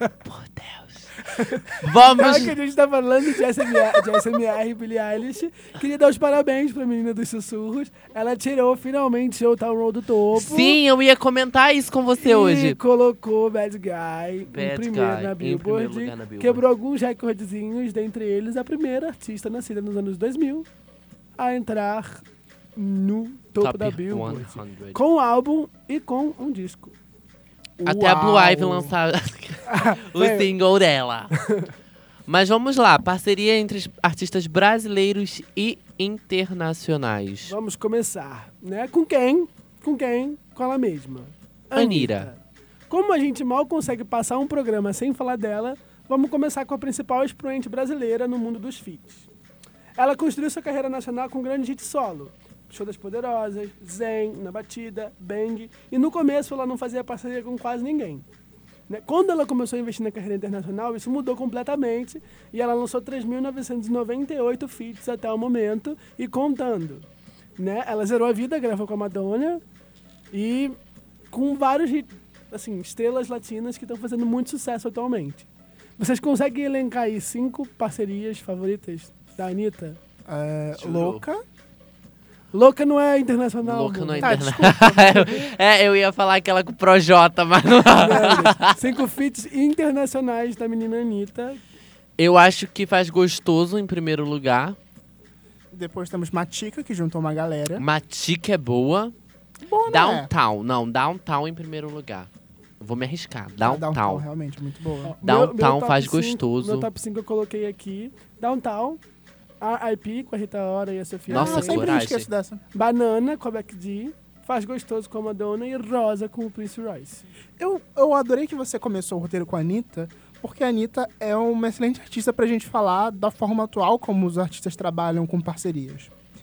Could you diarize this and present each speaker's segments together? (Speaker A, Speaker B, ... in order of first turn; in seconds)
Speaker A: 0.2-1.1, 1.8-2.5, 10.3-12.8, 14.5-16.6, 23.6-25.0, 27.8-31.3, 32.3-37.5, 41.7-42.3, 80.8-81.2, 83.6-88.8, 92.2-94.8, 97.8-99.1, 99.9-102.3, 102.8-104.2, 105.2-106.9, 111.3-112.3
Speaker B: 1.3-10.8, 12.2-20.7, 21.4-22.2, 22.8-26.9, 29.6-30.5, 31.4-31.7, 37.4-49.3, 50.0-58.2, 58.9-67.0, 67.6-69.6, 70.3-70.8, 71.3-80.0, 82.5-84.5, 87.9-91.6, 105.0-109.0, 109.6-111.9, 112.7-117.2
Speaker C: 27.8-28.9, 80.3-81.4, 84.2-85.5, 95.7-97.8, 99.7-100.3, 103.6-105.2, 111.3-112.6, 117.6-126.1